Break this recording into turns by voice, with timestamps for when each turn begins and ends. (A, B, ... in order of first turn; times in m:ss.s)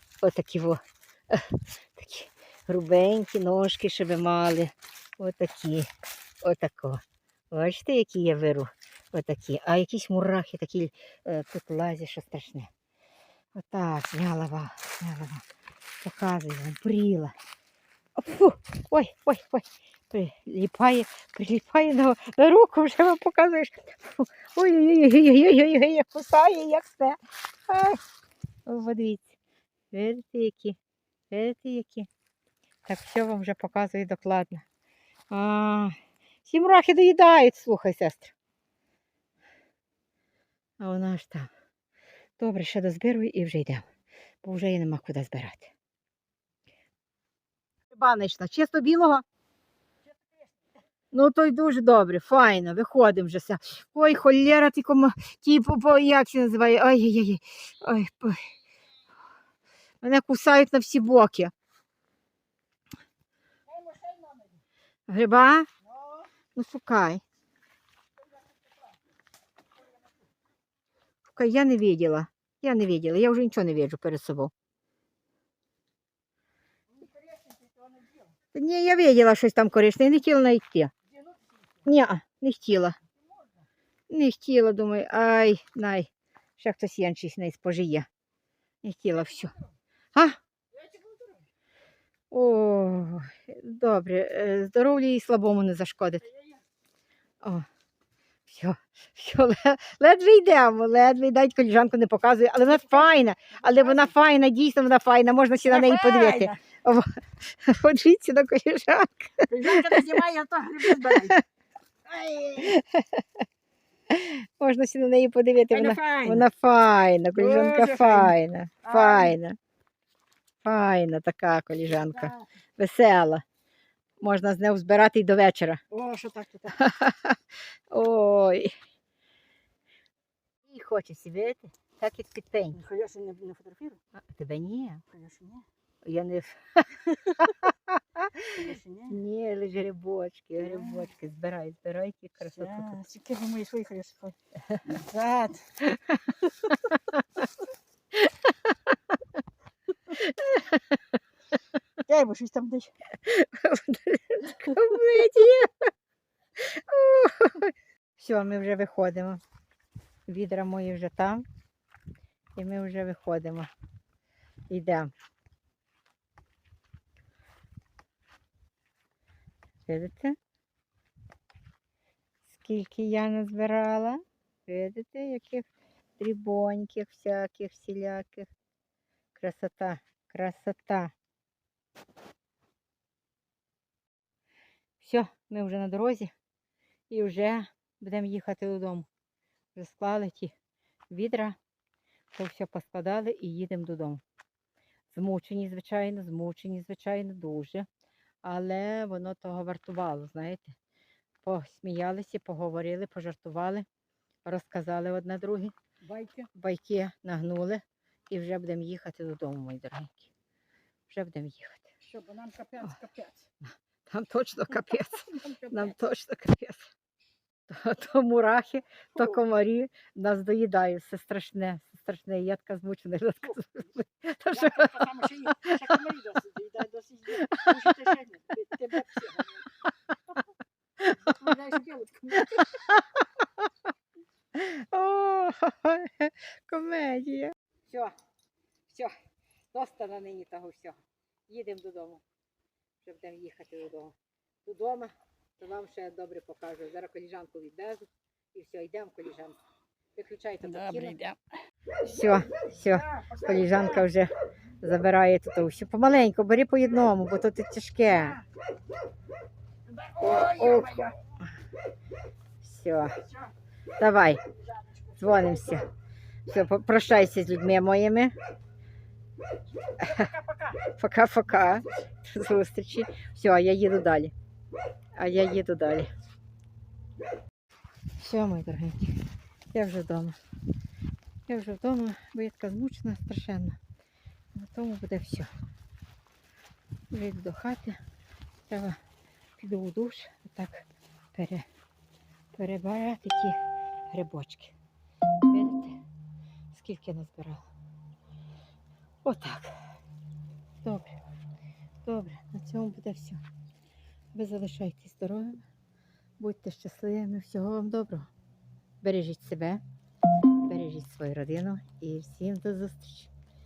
0:00.2-0:05.9 A
0:06.4-0:12.7 A
0:13.5-0:15.4 A
0:16.0-0:17.3 A
0:18.2-0:28.0 A
0:28.6-0:29.3 A
0:29.9-0:30.8 A
0:31.3-0:32.1 A
0:32.8-0:34.6 A
0:35.3-0:35.9 A
0:36.4-0:38.3 A
0:40.8-0:41.5 A
0:42.4-0:43.8 A
0:44.4-0:45.7 A
0:47.9-0:49.2 A
0:51.1-0:58.5 A
1:00.0-1:01.5 A
1:03.7-1:04.5 B
1:05.1-1:05.7 A
1:06.5-1:07.2 A
1:11.3-1:14.5 A
1:17.3-1:18.0 B
1:18.5-1:20.9 A
1:21.8-1:23.0 A
1:24.1-1:28.1 A
1:28.8-1:29.6 A
1:30.9-1:31.2 B
1:32.3-1:36.3 A
1:38.5-1:50.0 A
1:45.6-1:46.6 B
1:49.5-1:51.4 B
1:51.0-1:51.4 A
1:52.0-1:52.7 B
1:52.6-1:53.2 A
1:54.1-1:59.6 A
1:55.7-1:56.4 B
1:57.3-1:59.4 B
2:00.6-2:03.4 A
2:02.1-2:02.5 B
2:04.2-2:05.8 A
2:05.9-2:06.8 B
2:06.8-2:07.4 A
2:07.9-2:08.7 A
2:10.6-2:12.8 A
2:12.8-2:14.0 B
2:14.2-2:15.0 A
2:15.1-2:15.6 B
2:16.0-2:18.5 A
2:18.5-2:19.2 B
2:19.1-2:23.0 A
2:20.6-2:21.1 B
2:22.5-2:25.8 B
2:26.7-2:27.0 A
2:30.1-2:31.0 A
2:32.0-2:32.9 B
2:33.2-2:35.9 A
2:36.6-2:39.4 A
2:40.3-2:41.4 A
2:42.6-2:43.7 A
2:44.7-2:45.1 A
2:49.9-2:50.4 A
2:52.4-2:58.5 A
2:59.3-3:01.1 A
3:05.0-3:06.3 A
3:07.1-3:09.1 A
3:09.7-3:10.5 A
3:11.1-3:11.6 A
3:12.3-3:14.2 A
3:15.1-3:17.9 A
3:18.4-3:20.8 A
3:21.4-3:23.8 A
3:24.4-3:25.7 A
3:26.0-3:26.5 B
3:26.5-3:30.3 A
3:31.1-3:31.9 A
3:32.0-3:33.4 B
3:33.6-3:36.9 A
3:34.9-3:36.0 B
3:37.7-3:45.8 A
3:44.5-3:49.7 B
3:47.4-3:48.1 A
3:51.1-3:52.8 B
3:52.5-3:53.7 A
3:54.5-3:58.1 A
3:59.7-4:02.2 A
4:03.0-4:09.6 A
4:10.2-4:11.2 A
4:10.6-4:11.4 B
4:12.0-4:18.4 A
4:20.0-4:21.1 B
4:20.2-4:21.4 A
4:22.6-4:23.2 A
4:24.0-4:24.4 A
4:25.1-4:25.9 A
4:26.4-4:28.3 A
4:30.0-4:34.3 A
4:35.2-4:36.1 A
4:38.2-4:39.2 A
4:39.7-4:40.4 A
4:41.5-4:43.8 A
4:44.5-4:45.5 A
4:47.1-4:48.0 A
4:48.7-4:49.0 A
4:49.6-4:51.6 A
4:52.5-4:53.6 A
4:54.1-4:54.7 A
4:55.5-4:56.0 A
4:56.7-4:57.6 A
4:59.2-4:59.8 A
5:00.8-5:01.2 A
5:02.0-5:03.4 A
5:04.3-5:05.6 A
5:06.4-5:08.3 A
5:09.0-5:09.8 A
5:10.6-5:13.3 A